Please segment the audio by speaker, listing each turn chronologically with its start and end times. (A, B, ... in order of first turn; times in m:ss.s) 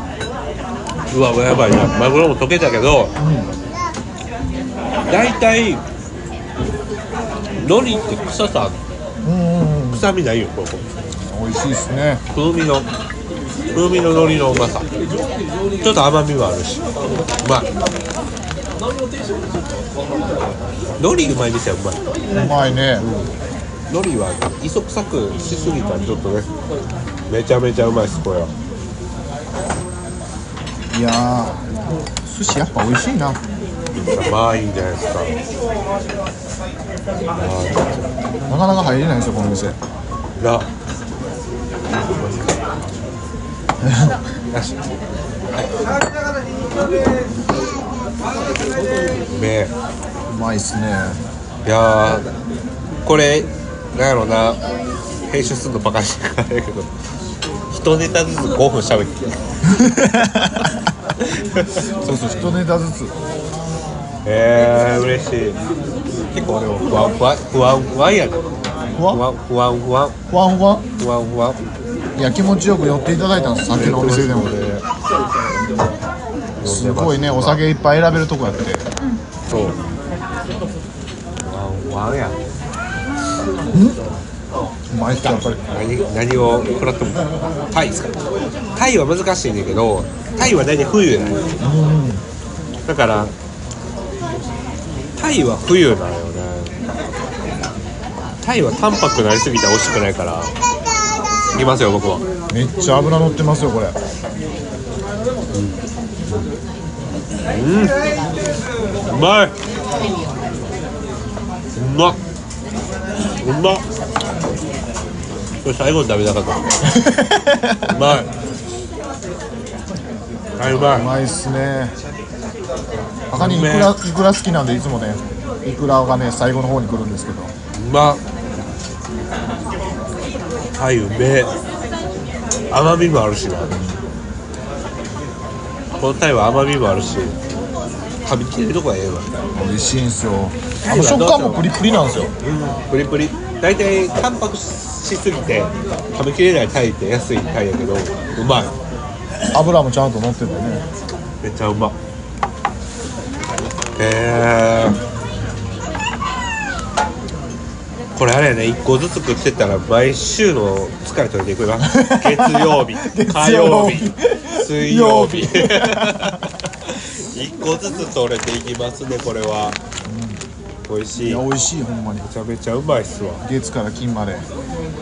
0:01.1-0:03.1 A
0:03.2-0:03.5 B
0:05.1-0:05.8 A
0:07.6-0:08.8 A
0:09.2-0:10.0 B
0:09.9-0:10.9 A
0:11.3-0:12.2 B
0:12.3-0:12.9 A
0:13.7-0:14.9 A
0:15.8-0:16.8 A
0:17.4-0:17.7 A
0:21.0-0:22.0 A
0:22.3-0:23.1 B
0:23.0-0:23.3 A
0:23.9-0:26.5 A
0:27.3-0:28.5 A
0:30.9-0:31.6 B
0:32.2-0:33.4 B
0:34.0-0:35.4 A
0:37.3-0:38.1 A
0:38.5-0:39.8 B
0:40.4-0:40.7 A
0:41.9-0:43.1 A
0:43.8-0:44.1 B
0:44.5-0:44.8 A
0:49.3-0:49.7 A
0:50.3-0:51.2 B
0:51.6-0:52.3 A
0:53.0-0:54.6 A
0:55.3-0:56.9 A
0:57.7-0:59.2 A
0:59.7-1:00.7 B
1:01.2-1:02.5 A
1:02.0-1:03.1 B
1:04.2-1:05.6 A
1:06.3-1:08.4 A
1:09.0-1:09.2 B
1:09.0-1:10.2 A
1:10.3-1:10.8 B
1:11.0-1:11.6 A
1:12.2-1:14.5 B
1:13.7-1:14.8 A
1:16.6-1:17.6 A
1:16.6-1:18.8 B
1:19.4-1:19.8 A
1:21.4-1:22.4 A
1:23.7-1:24.0 B
1:24.9-1:25.6 B
1:25.2-1:28.1 A
1:28.8-1:31.4 A
1:31.6-1:32.2 B
1:32.9-1:33.3 A
1:35.2-1:36.8 A
1:38.4-1:40.5 A
1:41.5-1:42.2 A
1:42.5-1:44.0 B
1:45.5-1:46.5 A
1:47.5-1:48.0 A
1:49.1-1:49.5 A
1:51.7-1:52.2 A
1:53.4-1:53.8 A
1:55.6-1:56.7 A
1:56.8-1:58.2 B
1:57.9-1:58.3 A
2:00.6-2:01.1 A
2:00.6-2:01.9 B
2:03.3-2:07.5 B
2:03.3-2:03.9 A
2:07.7-2:08.2 A
2:10.7-2:11.5 A
2:12.7-2:13.8 A
2:13.7-2:14.0 B
2:15.9-2:17.4 A
2:18.2-2:19.3 A
2:19.5-2:22.3 B
2:20.8-2:21.7 A
2:22.4-2:28.7 A
2:29.5-2:30.8 B
2:31.4-2:32.0 A
2:34.0-2:35.0 A
2:38.1-2:49.8 A
2:41.8-2:46.4 B
2:50.0-2:50.4 B
2:50.9-2:51.4 A
2:51.2-2:52.3 B
2:52.2-2:53.4 A
2:53.4-2:54.4 B